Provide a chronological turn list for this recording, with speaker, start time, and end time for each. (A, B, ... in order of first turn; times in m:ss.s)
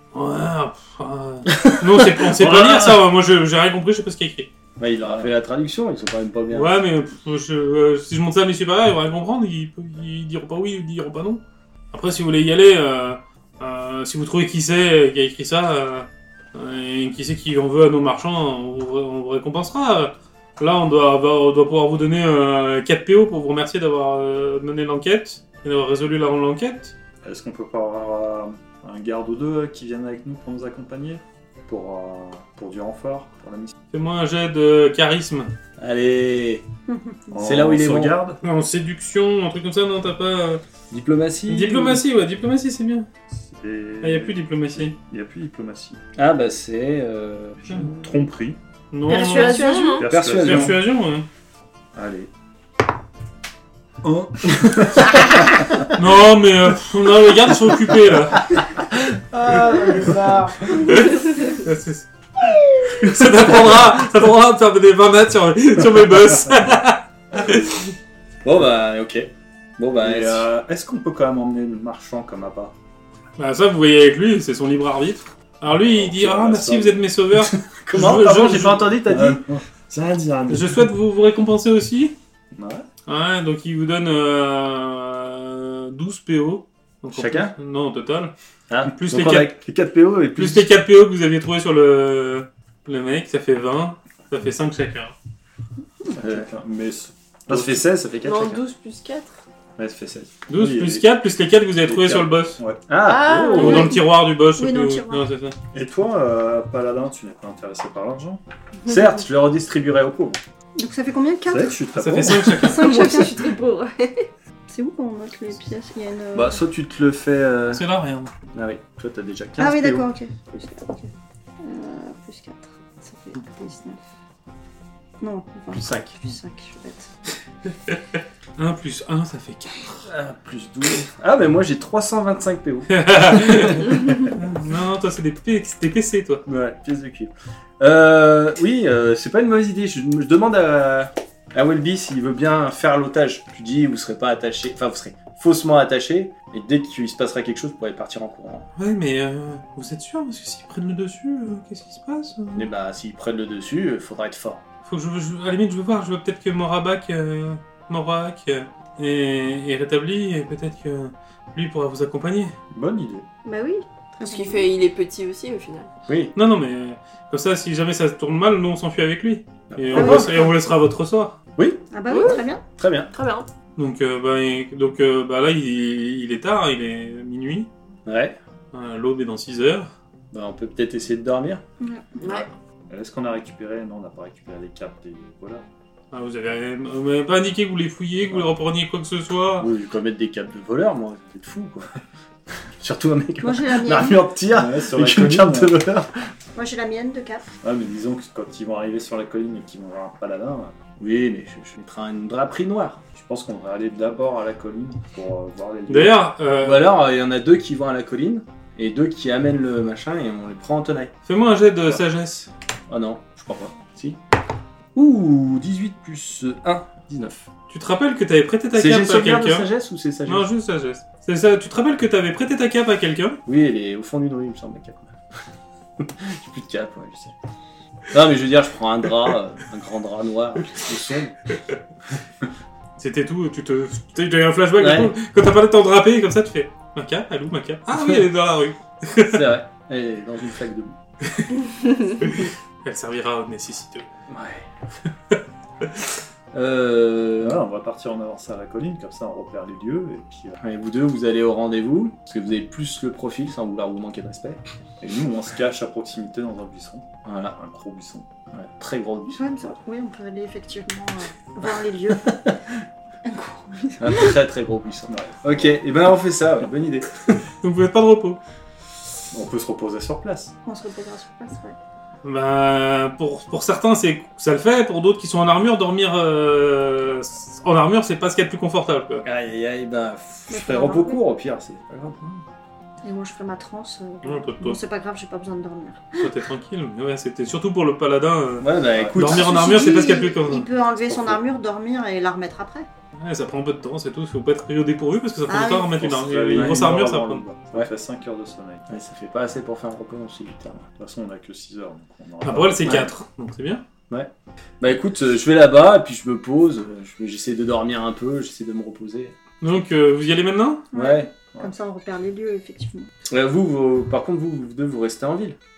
0:00.1-0:04.5 A
0:01.5-0:02.9 B
0:04.8-0:06.8 B
0:06.5-0:27.0 A
0:27.2-0:33.8 C
0:33.9-0:35.5 A
0:35.8-0:36.7 B
0:36.9-0:37.3 D
0:37.3-0:38.4 C
0:37.4-0:38.2 B
0:38.4-0:40.6 A
0:40.9-0:42.0 B
0:41.5-0:43.1 A
0:43.3-0:46.0 C
0:44.0-0:45.0 A
0:46.2-0:47.8 B
0:47.6-0:48.6 C
0:48.9-0:51.3 A
0:49.1-0:50.1 E
0:49.1-0:50.0 D
0:50.0-0:50.8 C
0:50.0-0:50.8 B
0:51.9-0:52.3 C
0:54.0-0:55.9 C
0:55.9-0:58.6 A
0:58.9-1:01.0 B
0:59.7-1:00.2 C
1:00.9-1:02.1 A
1:02.9-1:07.9 A
1:03.4-1:03.8 B
1:08.4-1:10.5 B
1:10.0-1:12.8 C
1:13.4-1:18.9 A
1:15.7-1:17.0 C
1:17.4-1:19.4 B
1:18.0-1:20.9 C
1:20.5-1:22.2 A
1:22.6-1:22.8 C
1:23.1-1:28.3 A
1:27.1-1:27.6 B
1:28.7-1:30.7 B
1:28.9-1:29.5 A
1:30.4-1:35.2 A
1:36.1-1:38.6 C
1:36.2-1:36.5 B
1:37.5-1:38.5 B
1:38.2-1:39.4 E
1:39.8-1:41.1 C
1:40.5-1:42.6 A
1:41.9-1:42.8 C
1:42.9-1:44.0 B
1:43.0-1:44.0 E
1:43.5-1:45.2 D
1:43.5-1:45.6 A
1:45.7-1:48.4 C
1:48.9-1:50.4 B
1:50.8-1:51.8 D
1:51.5-1:52.5 C
1:52.0-1:52.4 B
1:52.0-1:53.1 A
1:52.4-1:53.5 D
1:52.6-1:54.3 E
1:54.7-1:56.6 D
1:56.3-1:57.8 B
1:57.7-1:58.3 A
1:58.5-2:00.1 B
1:59.6-2:04.0 D
2:05.2-2:07.1 D
2:05.7-2:06.2 B
2:07.7-2:10.1 A
2:10.0-2:13.9 B
2:12.9-2:16.4 A
2:16.5-2:28.7 B
2:28.8-2:32.7 A
2:32.6-2:34.6 B
2:34.9-2:42.6 A
2:42.7-2:43.3 C
2:43.4-2:44.7 D
2:44.2-2:45.9 E
2:46.1-2:46.3 B
2:46.4-2:51.4 A
2:49.7-2:50.4 B
2:49.9-2:50.5 D
2:51.6-2:51.8 B
2:51.9-2:52.6 D
2:52.1-2:52.5 E
2:52.8-2:53.1 B
2:53.1-2:53.5 E
2:53.8-2:57.7 A
2:58.1-2:58.4 B
2:58.7-2:59.9 A
3:00.3-3:01.6 B
3:01.8-3:02.2 D
3:02.2-3:02.5 E
3:02.9-3:05.6 C
3:06.1-3:09.7 A
3:09.6-3:11.9 B
3:12.8-3:16.1 B
3:13.4-3:14.2 D
3:14.5-3:15.8 C
3:16.6-3:17.5 D
3:17.6-3:20.8 C
3:21.0-3:23.0 B
3:23.1-3:26.2 C
3:25.9-3:27.0 A
3:26.6-3:31.1 B
3:31.3-3:32.5 A
3:32.9-3:34.2 B
3:35.0-3:37.5 B
3:37.7-3:39.7 A
3:38.7-3:40.5 B
3:40.3-3:43.4 A
3:43.5-3:45.2 B
3:46.0-3:47.4 B
3:48.1-3:51.4 B
3:53.0-3:59.5 A
3:54.8-3:55.1 B
3:59.3-4:01.0 B
4:01.3-4:01.5 A
4:02.2-4:04.1 A
4:04.3-4:04.6 B
4:05.3-4:06.0 A
4:06.5-4:07.6 B
4:07.4-4:10.6 C
4:10.6-4:14.6 B
4:15.0-4:18.5 C
4:17.2-4:17.6 B
4:18.5-4:19.4 B
4:19.4-4:22.3 D
4:22.2-4:22.6 B
4:23.2-4:24.4 D
4:24.0-4:27.4 B
4:25.1-4:25.8 C
4:27.6-4:28.4 A
4:29.3-4:30.6 C
4:30.6-4:31.8 D
4:32.2-4:39.3 A
4:39.2-4:42.4 B
4:40.5-4:41.2 D
4:43.0-4:46.3 D
4:44.2-4:44.8 A
4:46.2-4:50.7 A
4:48.6-4:49.9 B
4:49.2-4:52.9 D
4:51.0-4:51.4 B
4:53.2-4:57.4 A
4:55.5-4:56.0 D
4:56.0-4:58.9 C
4:56.5-4:56.9 B
4:58.9-5:00.9 B
5:01.0-5:03.0 C
5:02.4-5:03.8 A
5:02.8-5:03.1 B
5:04.1-5:09.4 B
5:09.6-5:10.9 A
5:10.9-5:13.1 D
5:10.9-5:11.3 B
5:11.4-5:11.7 C
5:13.3-5:15.6 B